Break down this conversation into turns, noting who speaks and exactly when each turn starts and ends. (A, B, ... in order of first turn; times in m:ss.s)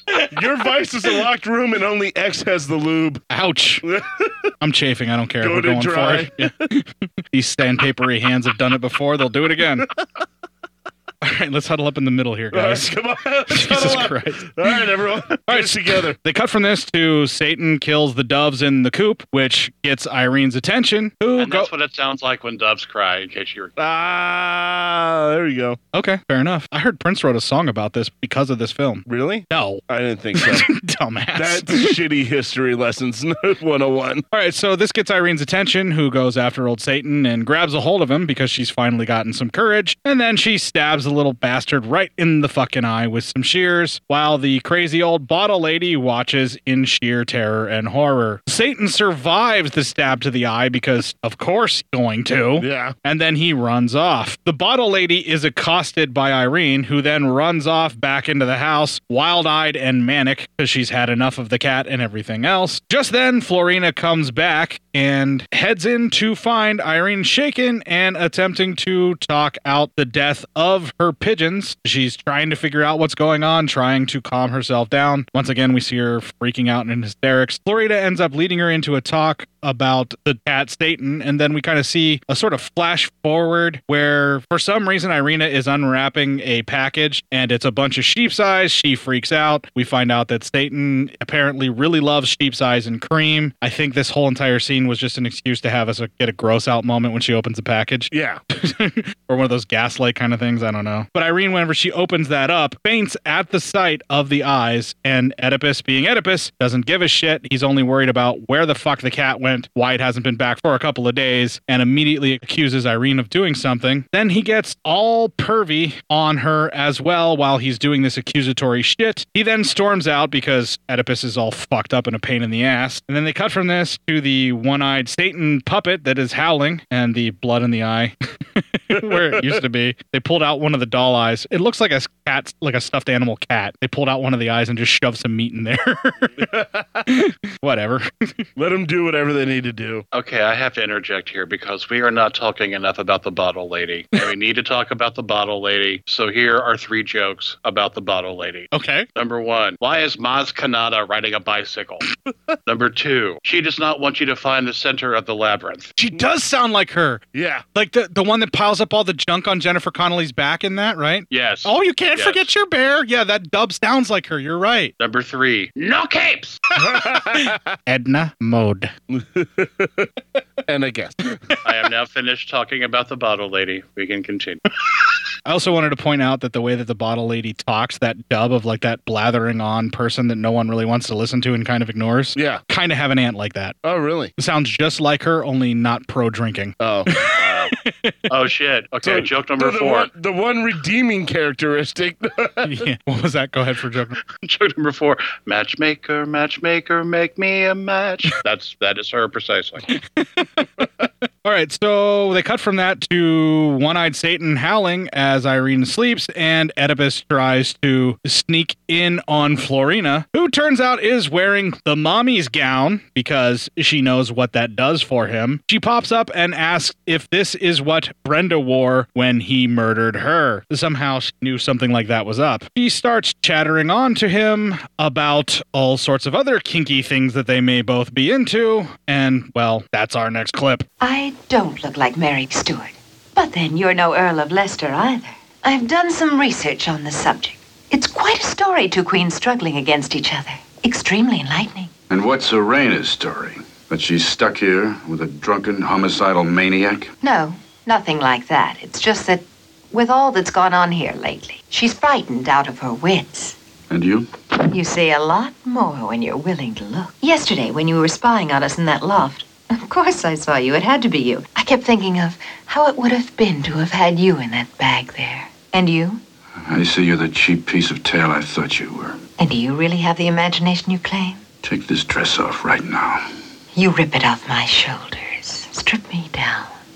0:00.3-0:03.2 A
0:03.3-0:03.8 B
0:03.8-0:04.4 A
0:04.6-0:09.9 B
0:05.4-0:06.5 A
0:11.2-0:13.0 B
0:12.5-0:16.2 A
0:13.5-0:14.5 B
0:15.5-0:21.7 B
0:21.4-0:23.7 C
0:23.8-0:25.8 A
0:25.9-0:29.8 B
0:29.1-0:30.7 A
0:30.4-0:32.0 B
0:31.4-0:34.2 A
0:34.3-2:16.3 B
0:52.6-0:53.0 A
1:38.1-1:38.4 A
2:08.9-2:09.6 A
2:16.4-2:17.1 A
2:17.1-2:18.4 B
2:18.6-2:20.0 A
2:20.1-2:32.1 C
2:28.7-2:29.1 B
2:32.7-2:35.9 C
2:36.0-2:37.2 B
2:37.3-2:37.6 A
2:37.7-2:44.9 B
2:41.3-2:42.5 C
2:45.0-2:46.6 C
2:46.8-2:47.6 A
2:47.9-2:48.9 B
2:49.1-2:50.1 A
2:50.7-2:51.4 A
2:51.6-2:54.6 C
2:55.4-3:03.8 B
3:02.4-3:02.6 A
3:03.8-3:04.3 A
3:04.4-3:08.1 B
3:06.8-3:07.1 A
3:07.4-3:07.7 C
3:08.3-3:10.1 C
3:09.0-3:12.8 A
3:12.6-3:14.2 B
3:14.3-3:19.8 C
3:20.2-3:20.8 B
3:21.4-3:50.9 B
3:51.0-4:01.9 D
4:02.1-4:07.1 E
4:07.2-4:13.6 D
4:13.9-4:14.3 E
4:14.7-4:26.2 D
4:26.6-4:29.2 E
4:29.4-4:31.4 D
4:31.6-4:33.2 E
4:33.8-4:36.8 D